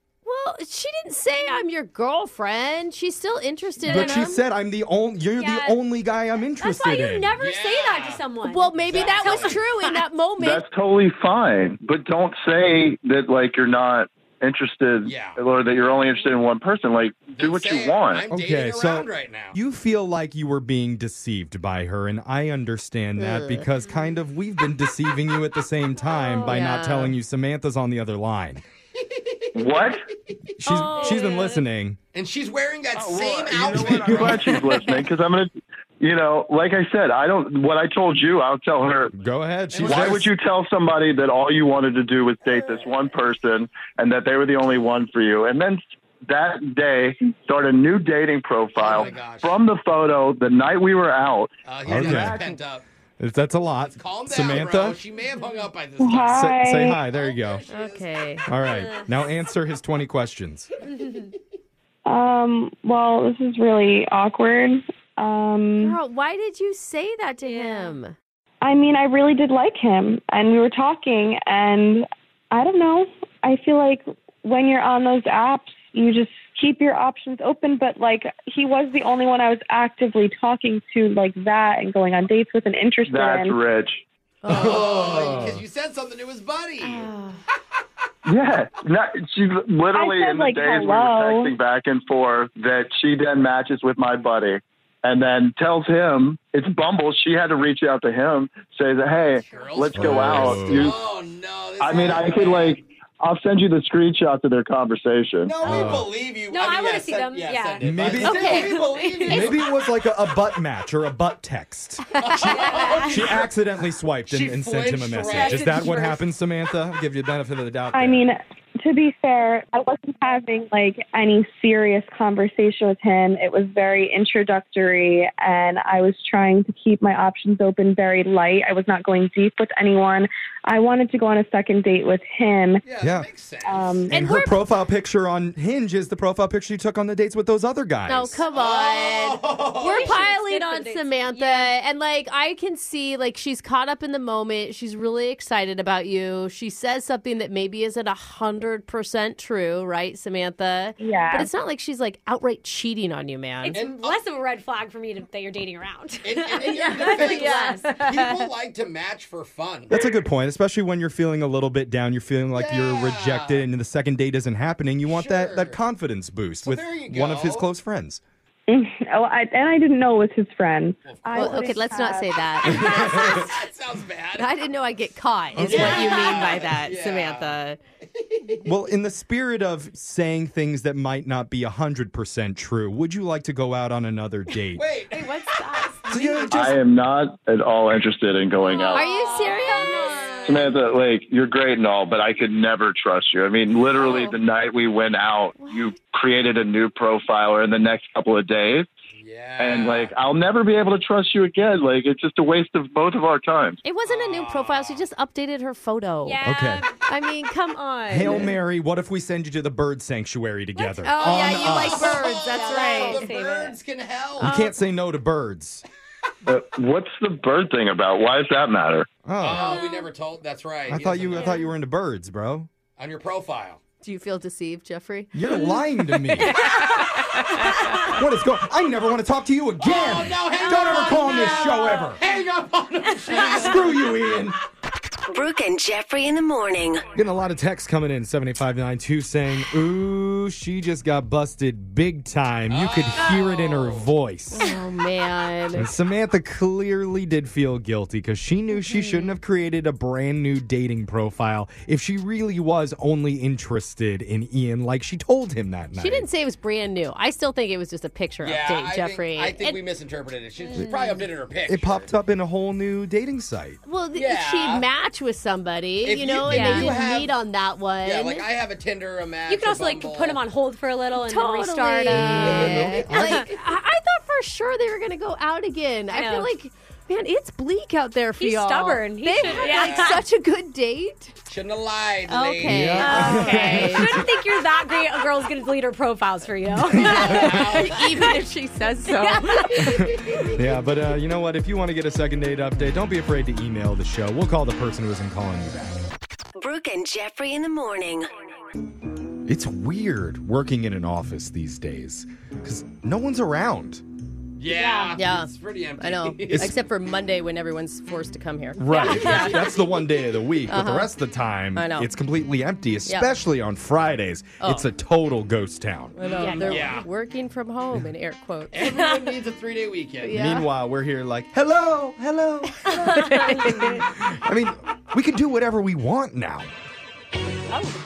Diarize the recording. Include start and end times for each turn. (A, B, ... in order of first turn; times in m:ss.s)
0:00.2-0:04.4 A
0:03.8-0:07.4 B
0:03.9-0:04.2 C
0:05.4-0:05.8 C
0:06.6-0:10.0 C
0:07.4-0:08.2 D
0:08.4-0:10.6 A
0:08.8-0:09.6 D
0:10.4-0:18.2 E
0:15.0-0:15.4 D
0:17.3-0:19.6 D
0:18.3-0:28.6 B
0:23.2-0:23.6 A
0:26.4-0:27.2 A
0:29.5-0:30.0 E
0:30.6-0:32.0 B
0:30.7-0:31.5 A
0:30.8-0:31.6 C
0:32.1-0:34.6 D
0:32.9-0:39.1 E
0:33.5-0:34.6 B
0:39.1-0:40.3 B
0:39.7-0:40.3 D
0:39.8-0:51.5 E
0:42.4-0:43.0 D
0:48.8-0:49.5 D
0:51.6-0:52.8 D
0:51.8-0:52.4 B
0:52.0-0:52.3 E
0:53.2-0:55.0 B
0:53.9-0:58.5 D
0:56.0-0:57.0 F
0:56.2-0:57.6 B
0:57.7-0:58.5 A
0:58.4-1:00.7 B
0:58.6-0:59.0 C
1:00.8-1:01.3 C
1:02.0-1:06.0 F
1:05.8-1:08.1 A
1:07.4-1:08.0 C
1:08.6-1:23.6 F
1:23.0-1:24.0 E
1:24.4-1:25.6 A
1:24.5-1:27.1 D
1:24.5-1:25.6 B
1:26.8-1:27.4 A
1:28.2-1:41.0 E
1:29.9-1:31.5 F
1:39.3-1:39.8 C
1:39.5-1:42.8 D
1:39.9-1:41.0 B
1:41.8-1:45.6 E
1:45.4-1:49.6 D
1:45.6-1:46.1 B
1:46.5-1:49.4 C
1:47.8-1:58.2 B
1:48.2-1:49.3 A
1:52.2-1:53.5 D
1:52.4-1:53.2 C
1:54.3-1:55.9 D
1:55.2-1:56.2 C
1:57.9-2:12.8 F
2:12.8-2:14.1 D
2:13.0-2:13.3 B
2:13.6-2:14.1 F
2:14.1-2:18.4 B
2:14.1-2:14.6 A
2:18.1-2:33.8 A
2:18.5-2:20.3 D
2:19.8-2:21.7 C
2:31.0-2:31.5 F
2:33.6-2:38.3 C
2:33.7-2:34.2 D
2:36.2-2:39.9 D
2:36.7-2:37.9 A
2:39.9-2:48.2 B
2:42.5-2:43.6 D
2:45.1-2:45.8 D
2:46.6-2:47.7 D
2:48.7-2:52.4 F
2:51.0-2:51.7 D
2:51.3-2:53.6 A
2:52.6-2:54.5 D
2:52.7-2:53.4 B
2:54.4-2:57.8 A
2:55.5-2:56.5 B
2:55.6-2:57.6 D
2:58.1-2:58.6 D
2:58.6-3:04.8 B
3:04.7-3:05.4 D
3:05.1-3:06.0 C
3:06.0-3:06.5 A
3:06.1-3:06.8 B
3:06.5-3:09.1 E
3:08.6-3:10.7 C
3:08.9-3:10.8 A
3:10.4-3:18.9 E
3:14.0-3:14.3 A
3:15.6-3:15.9 A
3:19.2-3:20.1 D
3:19.6-3:23.8 E
3:23.8-3:26.4 A
3:24.0-3:25.0 D
3:26.2-3:27.0 C
3:26.4-3:26.8 B
3:27.1-3:28.5 A
3:28.1-3:32.2 B
3:30.8-3:33.3 A
3:31.2-3:34.5 D
3:32.4-3:33.8 C
3:34.4-3:35.8 B
3:34.4-3:34.7 A
3:36.4-3:39.1 E
3:39.2-3:39.8 B
3:39.4-3:41.6 D
3:39.6-3:40.1 C
3:40.9-3:42.7 B
3:43.0-3:43.8 D
3:44.0-3:45.7 A
3:45.3-3:46.8 B
3:46.4-3:48.0 C
3:46.6-3:47.9 A
3:47.9-3:52.2 B
3:49.8-3:54.1 D
3:53.3-3:54.6 B
3:55.3-3:57.0 G
3:57.1-4:04.7 B
4:02.7-4:04.1 D
4:04.5-4:05.9 A
4:05.7-4:16.3 B
4:08.9-4:09.3 A
4:16.0-4:19.8 A
4:18.4-4:22.1 D
4:20.6-4:21.2 C
4:21.6-4:23.8 B
4:23.8-4:28.5 A
4:24.1-4:24.8 D
4:26.0-4:27.4 D
4:26.5-4:27.0 C
4:28.0-4:30.4 D
4:29.5-4:33.5 C
4:31.1-4:41.4 A
4:32.0-4:33.5 B
4:36.1-4:36.5 C
4:38.4-4:40.2 C
4:39.4-4:40.2 D
4:41.5-4:43.4 D
4:42.3-4:44.3 A
4:42.6-4:44.3 B
4:43.0-4:48.3 C
4:47.0-4:48.3 D
4:47.0-4:47.2 B
4:47.0-4:50.1 A
4:49.1-4:49.8 C
4:49.8-4:56.0 B
4:56.6-4:58.3 G
4:59.4-5:04.0 B
5:04.6-5:06.7 D
5:04.7-5:05.2 C
5:05.2-5:09.6 A
5:06.5-5:06.8 B
5:08.8-5:16.2 B
5:08.9-5:09.6 C
5:10.7-5:11.1 A
5:11.7-5:12.1 A
5:13.0-5:13.3 A
5:14.6-5:14.9 A
5:16.2-5:19.1 A
5:16.2-5:17.1 D
5:16.4-5:17.0 C
5:18.7-5:20.4 D
5:20.2-5:20.7 A
5:20.3-5:26.7 B
5:22.9-5:24.0 A
5:23.2-5:23.7 C